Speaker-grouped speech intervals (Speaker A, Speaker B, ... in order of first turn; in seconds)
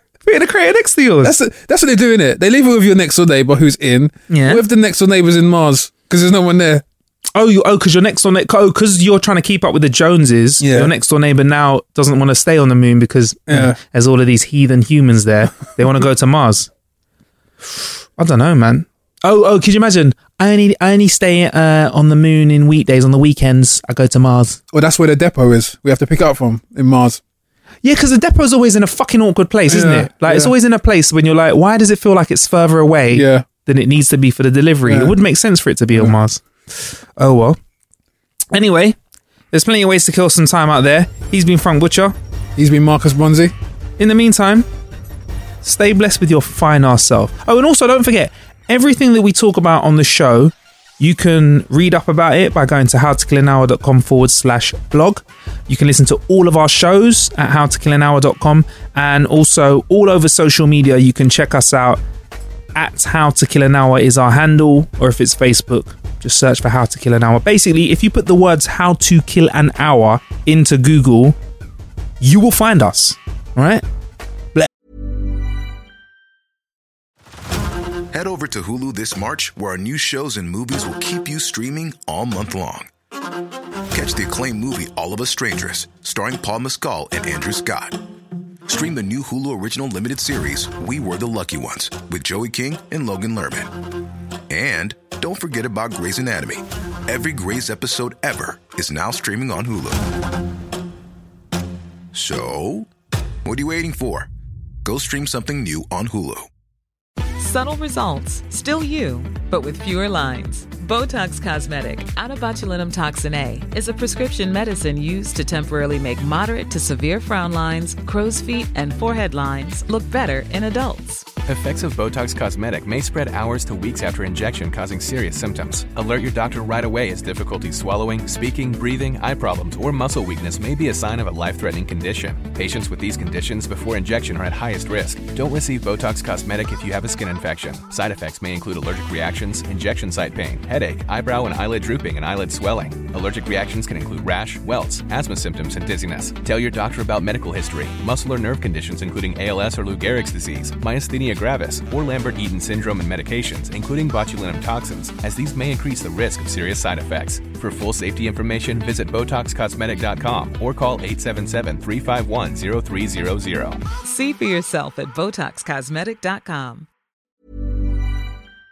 Speaker A: 0.2-1.3, 4.3-4.6, 7.3-16.7, 17.8-24.6, 27.8-37.6, 38.5-39.0, 39.5-42.1, 44.0-44.7, 45.6-62.0, 62.8-71.4, 72.2-73.8
Speaker B: 1.2-6.8, 10.6-10.9, 13.5-13.8, 24.7-27.2, 29.7-30.5, 33.1-33.5, 34.9-35.2, 42.6-43.5
Speaker C: 78.1-82.9, 83.9-88.0, 88.7-93.7, 94.5-100.0, 102.1-102.9, 103.5-104.3, 104.8-106.5
Speaker D: 107.4-121.3, 164.0-166.9
Speaker E: 121.5-163.8